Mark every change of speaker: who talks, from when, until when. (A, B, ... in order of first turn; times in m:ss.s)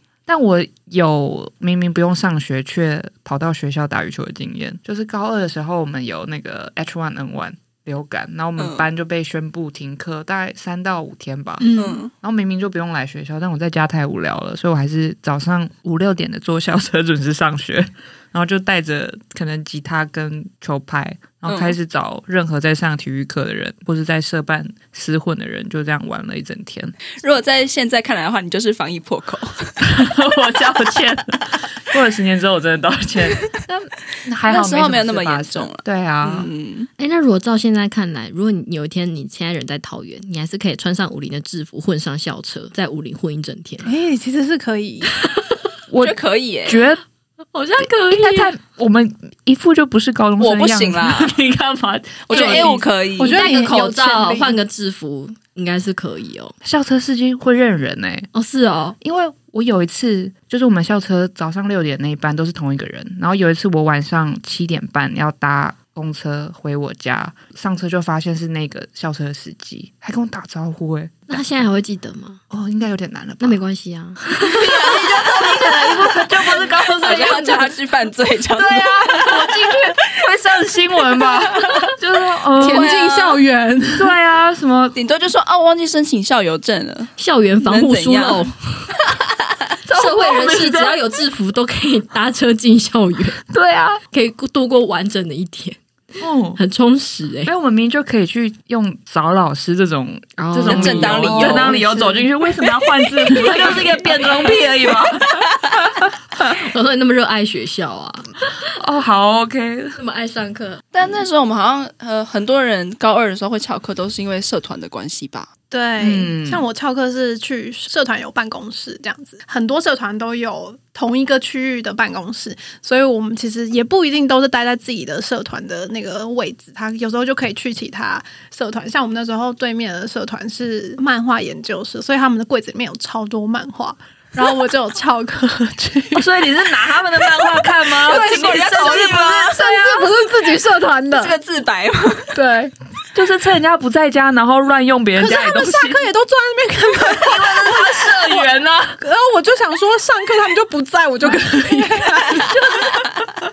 0:00.3-0:11.7 A
0:08.6-0:08.9 B
0:11.6-0:12.0 C
0:11.8-0:12.1 B
0:12.2-0:26.9 A
0:21.5-0:21.8 B
0:27.2-0:29.7 B
0:29.8-0:36.5 A
0:34.5-0:36.9 B
0:37.0-0:43.9 D
0:43.8-0:45.1 C
0:45.3-0:45.6 D
0:45.9-0:47.0 A
0:46.0-0:46.8 B
0:47.5-0:48.5 D
0:47.8-0:52.9 A
0:50.4-0:51.3 B
0:52.3-0:53.4 B
0:52.3-0:52.7 D
0:53.2-0:54.6 C
0:53.3-0:56.5 D
0:56.6-0:58.3 A
0:58.3-0:59.0 D
0:59.0-1:11.6 A
1:11.3-1:12.4 D
1:12.5-1:13.6 A
1:13.4-1:14.8 D
1:14.4-1:17.7 A
1:14.6-1:15.9 B
1:17.0-1:19.9 B
1:17.1-1:17.6 D
1:18.5-1:22.9 A
1:22.6-1:24.1 C
1:22.6-1:23.4 B
1:24.0-1:25.0 A
1:24.9-1:28.5 B
1:27.2-1:28.9 D
1:29.9-1:31.0 A
1:29.9-1:33.4 D
1:33.5-1:34.0 A
1:34.1-1:35.8 D
1:36.2-1:36.6 A
1:36.6-1:37.5 D
1:37.4-1:45.5 A
1:40.4-1:42.3 D
1:40.6-1:41.8 B
1:43.2-1:44.6 D
1:46.4-1:48.4 D
1:48.7-1:50.0 A
1:50.0-1:50.8 D
1:50.9-1:55.5 B
1:55.7-2:16.3 C
1:56.0-1:56.6 A
2:16.1-2:18.9 A
2:17.2-2:21.4 C
2:18.0-2:20.1 B
2:21.1-2:22.3 B
2:22.3-2:22.7 C
2:23.1-2:26.1 A
2:25.2-2:28.4 C
2:27.0-2:29.0 A
2:29.0-2:32.6 C
2:32.6-2:33.0 A